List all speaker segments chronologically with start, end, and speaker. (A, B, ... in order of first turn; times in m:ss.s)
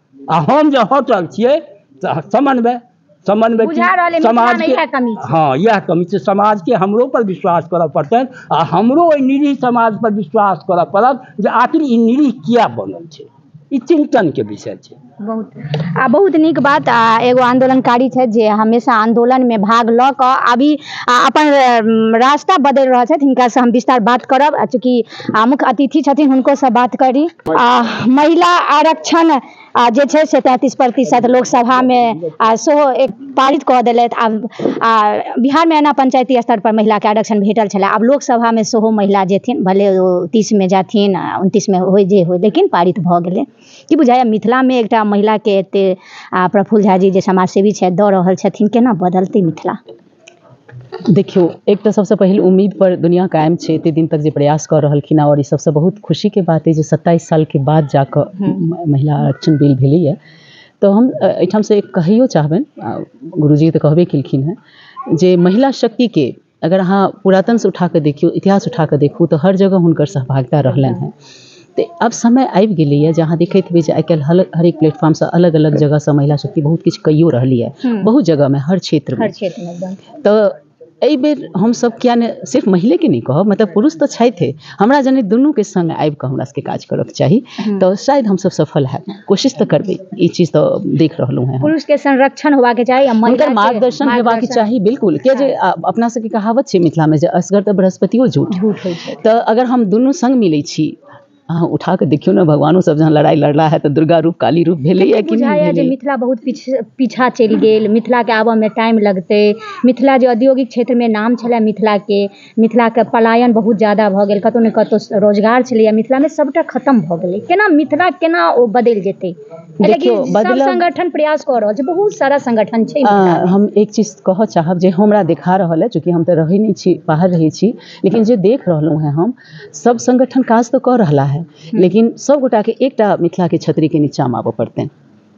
0:00.3-0:15.0 A
0:03.6-0:05.3 B
0:15.2-0:49.8 B
0:51.1-1:00.2 C
1:00.8-1:04.6 C
1:05.1-1:11.2 C
1:10.7-1:11.0 B
1:11.8-1:19.3 C
1:17.8-1:18.1 B
1:19.2-1:20.0 B
1:20.2-1:31.7 C
1:31.6-1:34.7 B
1:33.2-1:41.0 C
1:35.3-1:35.5 B
1:38.5-1:39.2 B
1:41.5-1:45.9 C
1:45.0-2:03.6 B
1:59.8-2:00.8 C
2:03.0-2:14.9 C